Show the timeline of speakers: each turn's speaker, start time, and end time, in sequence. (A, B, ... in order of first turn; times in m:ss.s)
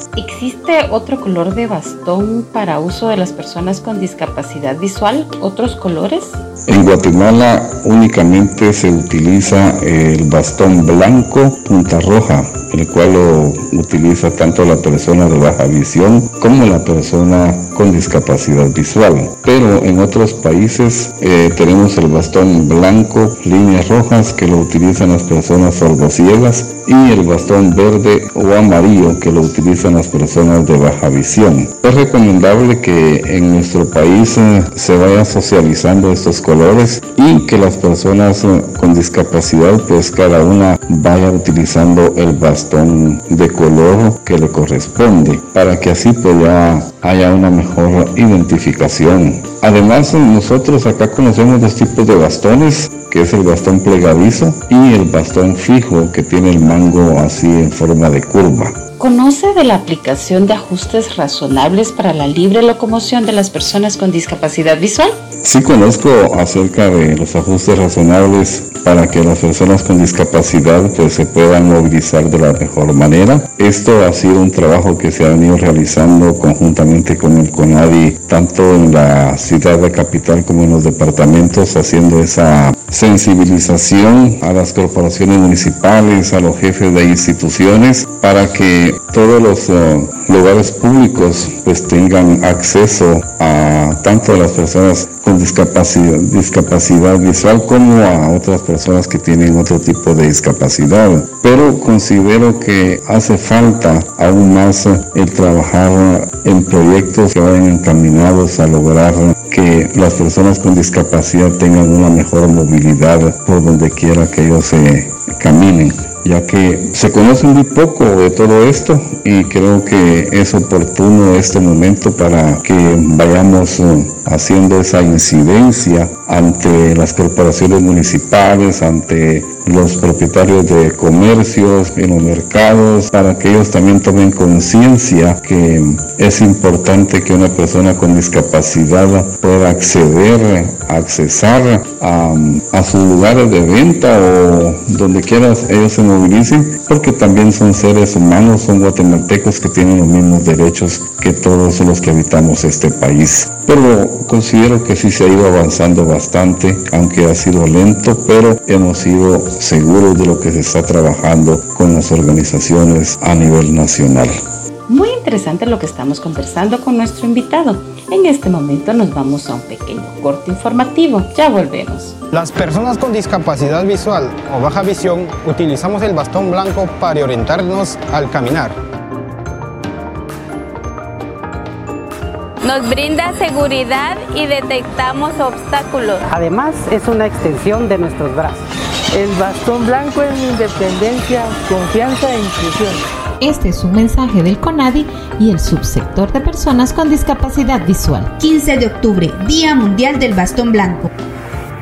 0:00.2-0:06.4 A
0:06.7-0:58.8 B
0:59.0-1:05.2 A
1:05.4-2:44.3 B
2:44.9-2:52.2 A
2:52.3-2:58.8 C
3:02.6-3:06.2 D
3:06.3-3:08.6 E
3:09.1-3:13.0 F
3:13.4-3:18.3 G
3:18.4-3:21.1 H